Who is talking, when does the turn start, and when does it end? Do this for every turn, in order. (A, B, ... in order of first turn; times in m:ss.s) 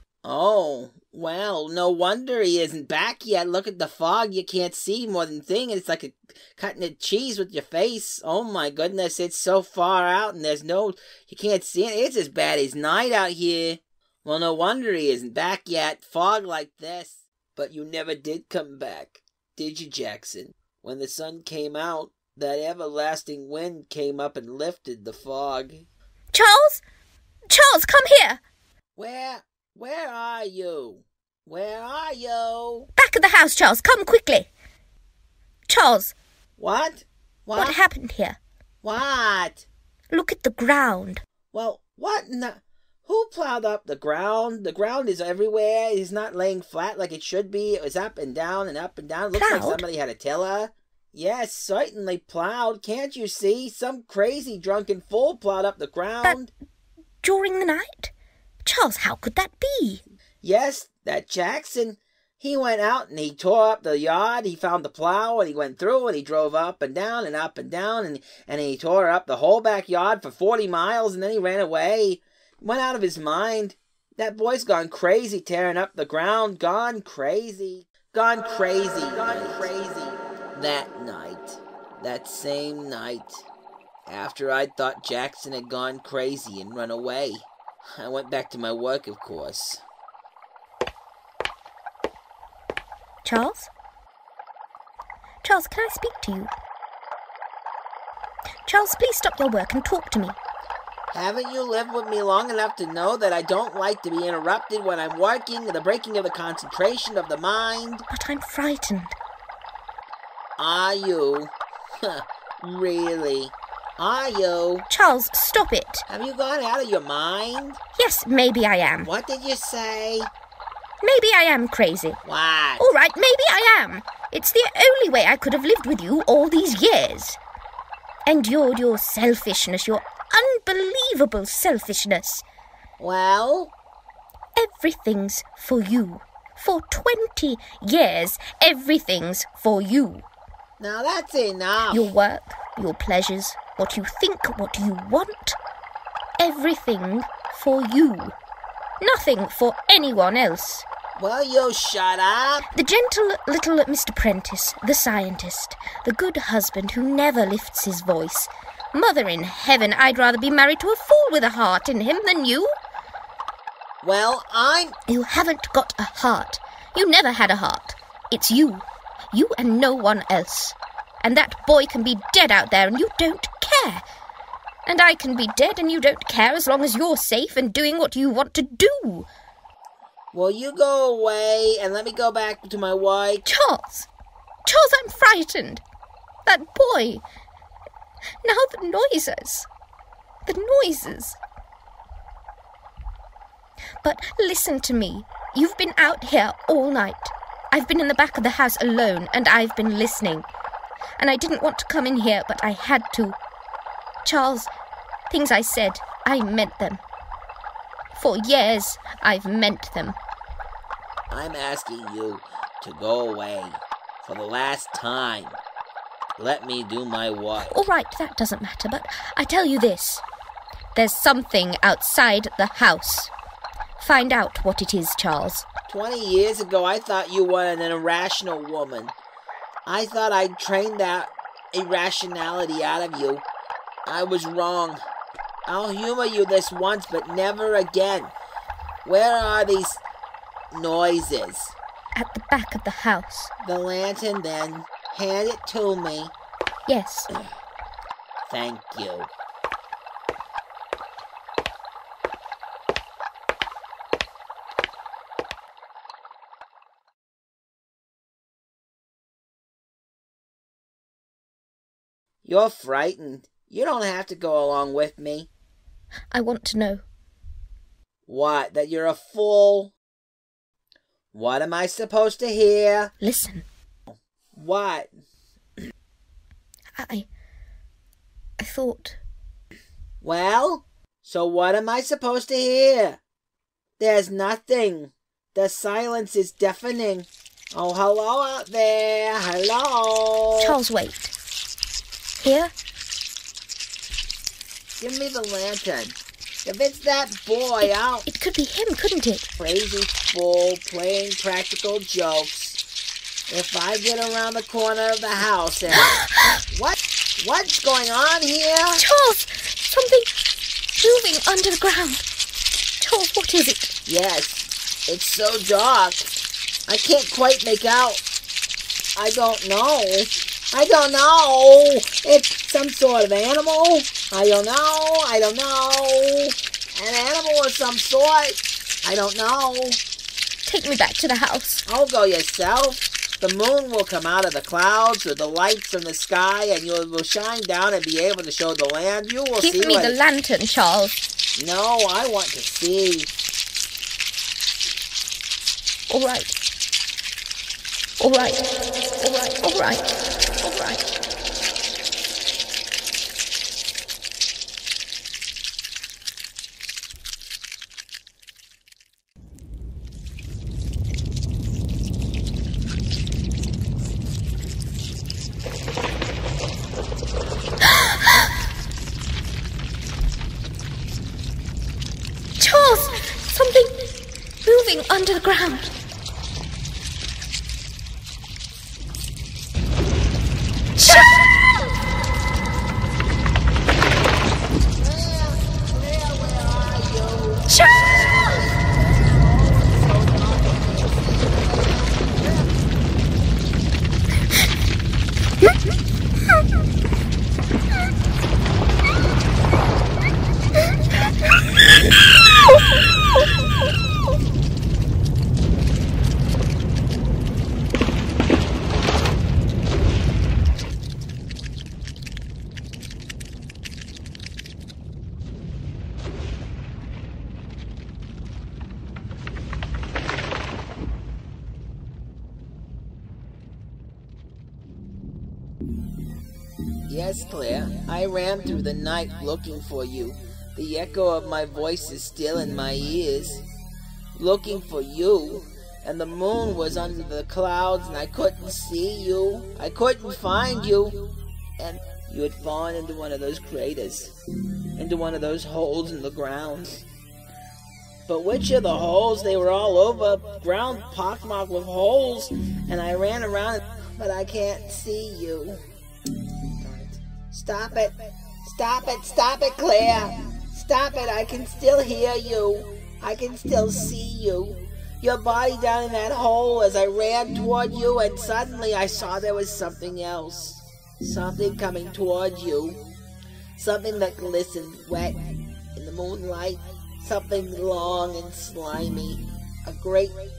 0:00.2-0:25.8 A
0:26.3-0:26.8 B
0:27.5-0:28.4 B
0:29.0-0:32.9 A
0:33.0-0:34.5 B
0:35.7-0:36.1 B
0:36.6-0:37.8 A
0:37.5-0:38.4 B
0:38.8-0:39.6 A
0:40.1-0:41.2 B
0:41.5-0:56.5 A
0:49.4-0:49.8 B
0:57.2-0:58.1 B
0:58.6-1:00.0 B
1:00.4-1:23.4 A
1:24.1-1:29.8 A
1:33.2-1:33.7 B
1:35.4-1:36.5 B
1:38.6-1:40.4 B
1:41.1-1:48.0 A
1:48.1-1:49.2 B
1:50.6-1:54.8 A
1:54.9-1:56.0 B
1:56.1-1:57.8 A
1:58.0-1:59.1 B
1:59.0-2:00.3 A
2:01.0-2:02.2 B
2:02.2-2:02.9 A
2:02.8-2:07.4 B
2:08.3-2:12.4 B
2:13.0-2:13.7 A
2:14.6-2:20.2 B
2:20.8-2:22.1 A
2:21.9-2:25.6 B
2:26.4-2:28.3 B
2:29.0-2:30.8 B
2:31.2-2:32.6 A
2:32.7-2:42.8 B
2:44.0-2:44.9 A
2:45.1-2:54.0 B
2:54.8-2:59.3 B
3:00.3-3:03.4 A
3:03.4-3:04.1 B
3:04.6-3:05.8 B
3:06.4-3:07.2 B
3:08.4-3:09.7 B
3:10.4-3:11.4 B
3:14.0-3:20.5 B
3:21.2-3:23.4 B
3:24.2-3:24.7 B
3:25.3-3:27.0 B
3:28.1-3:30.2 B
3:31.3-3:35.6 A
3:36.4-3:37.8 A
3:37.6-3:40.2 B
3:40.9-3:43.3 B
3:44.0-3:45.6 B
3:45.9-3:49.1 A
3:49.8-3:53.4 A
3:54.0-3:55.0 A
3:55.7-3:58.3 A
3:59.0-4:00.0 A
4:00.7-4:01.7 A
4:02.2-4:03.5 B
4:03.6-4:06.3 A
4:06.9-4:07.3 B
4:08.5-4:09.3 A
4:22.4-4:25.5 A
4:26.3-4:27.0 B
4:28.3-4:29.9 A
4:31.3-4:33.1 A
4:33.2-4:33.6 B
4:34.1-4:35.1 A
4:37.0-4:37.3 B
4:38.6-4:39.2 B
4:40.2-4:43.2 A
4:44.0-4:50.7 A
4:50.6-4:51.3 B
4:52.4-4:52.7 B
4:55.0-4:58.3 A
4:57.8-4:59.4 B
4:59.5-5:02.8 A
5:03.5-5:06.1 A
5:06.0-5:06.6 B
5:06.7-5:09.0 A
5:09.0-5:10.3 B
5:10.9-5:12.2 B
5:13.0-5:13.9 B
5:14.0-5:16.3 A
5:16.9-5:18.2 A
5:19.2-5:30.0 A
5:30.6-5:31.8 B
5:31.8-5:40.2 A
5:39.6-5:41.2 B
5:41.6-5:43.3 A
5:46.1-5:46.5 B
5:48.2-5:48.6 B
5:49.2-5:50.1 B
5:50.6-5:51.1 B
6:07.8-6:08.1 B
6:12.6-6:13.9 B
6:14.6-6:15.9 B
6:21.0-6:21.6 B
6:25.0-6:32.7 A
6:27.7-6:28.5 B
7:07.1-7:13.6 A
7:14.3-7:21.2 A
7:21.8-7:24.3 A
7:25.0-7:27.0 A
7:28.3-7:35.8 A
7:36.8-7:53.0 A
7:53.8-8:00.4 A